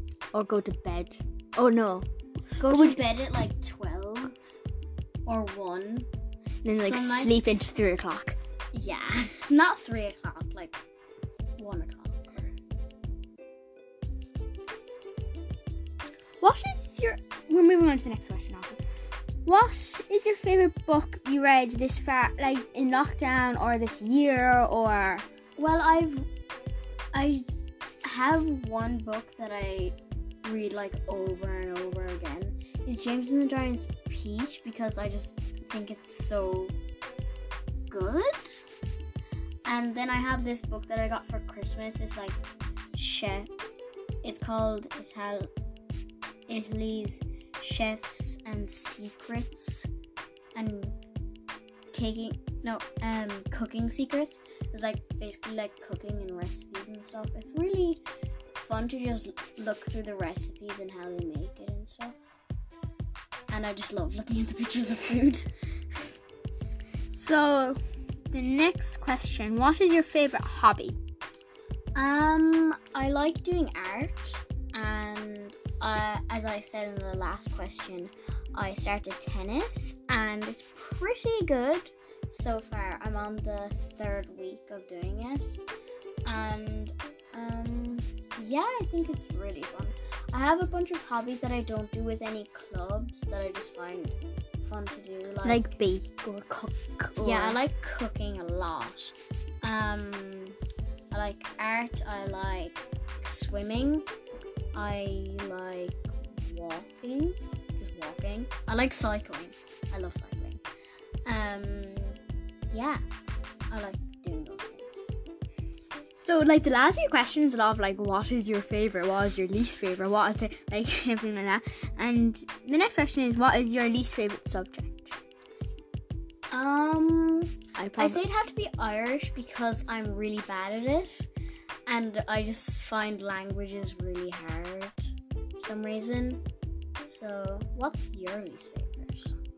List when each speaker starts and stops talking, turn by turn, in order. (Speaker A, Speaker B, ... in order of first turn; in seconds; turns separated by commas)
Speaker A: 0.3-2.1, Speaker B: 2.6-4.5, Speaker A: 2.6-3.0, Speaker B: 5.3-6.1, Speaker A: 6.6-8.4, Speaker B: 6.8-7.3, Speaker B: 8.7-10.8, Speaker B: 11.6-12.5, Speaker A: 16.4-18.8, Speaker A: 19.5-25.2, Speaker B: 25.6-26.2, Speaker B: 27.1-27.5, Speaker B: 28.0-36.8, Speaker B: 37.9-38.6, Speaker B: 39.6-42.4, Speaker B: 42.9-43.5, Speaker B: 44.2-45.5, Speaker B: 46.5-49.9, Speaker B: 50.5-51.0, Speaker B: 51.9-58.0, Speaker B: 58.6-62.2, Speaker B: 63.5-65.5, Speaker A: 67.1-71.0, Speaker B: 72.0-85.6, Speaker B: 86.2-95.7, Speaker A: 95.5-97.6, Speaker B: 97.2-100.6, Speaker B: 101.1-104.1, Speaker B: 104.7-110.6, Speaker B: 111.2-113.0, Speaker B: 113.7-115.1, Speaker A: 116.2-125.2, Speaker B: 126.5-131.3, Speaker A: 127.8-128.2, Speaker B: 131.9-136.4, Speaker B: 137.0-139.3